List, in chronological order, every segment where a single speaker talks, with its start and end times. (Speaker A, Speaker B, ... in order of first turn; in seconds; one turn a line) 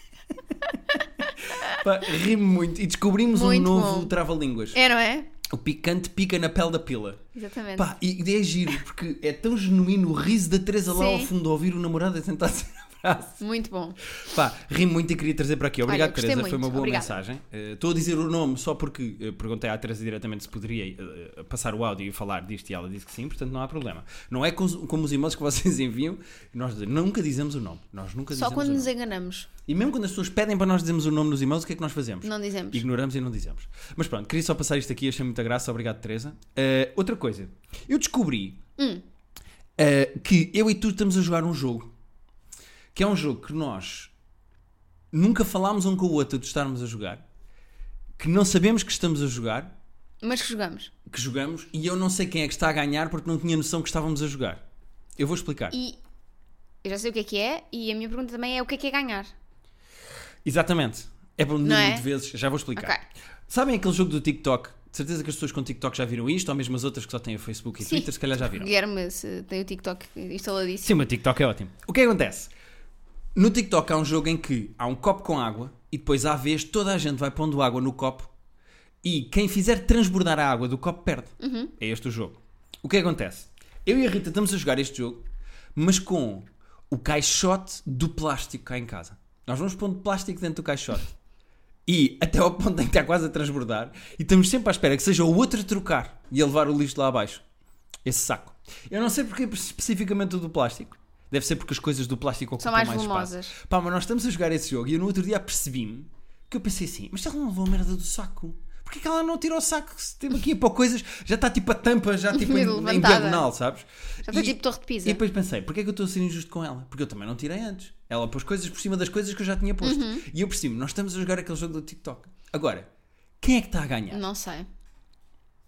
Speaker A: 0.9-1.8
Speaker B: 1.5-4.8
Speaker A: 3.3-4.1
Speaker A: 4.7-5.3
Speaker B: 5.4-13.4
Speaker A: 7.3-7.9
Speaker A: 10.9-11.3
Speaker A: 13.4-14.0
Speaker B: 14.1-28.9
Speaker A: 15.8-17.2
Speaker A: 28.3-29.5
Speaker B: 29.6-38.6
Speaker A: 32.2-32.8
Speaker A: 38.8-39.0
Speaker B: 39.8-41.9
Speaker B: 42.9-44.1
Speaker B: 45.1-47.2
Speaker B: 48.2-49.7
Speaker A: 50.2-50.9
Speaker B: 51.1-54.6
Speaker B: 55.1-55.8
Speaker A: 55.7-56.0
Speaker A: 56.8-59.3
Speaker B: 60.4-62.9
Speaker A: 61.6-62.1
Speaker A: 62.7-63.0
Speaker B: 63.5-68.7
Speaker A: 67.8-71.0
Speaker B: 70.8-72.5
Speaker B: 73.3-78.3
Speaker B: 79.0-91.1
Speaker A: 81.4-81.7
Speaker B: 91.8-97.4
Speaker B: 98.0-122.9
Speaker A: 102.6-103.5
Speaker A: 112.3-113.5
Speaker A: 114.2-115.2
Speaker A: 119.8-120.2
Speaker B: 123.4-124.2
Speaker A: 124.1-124.7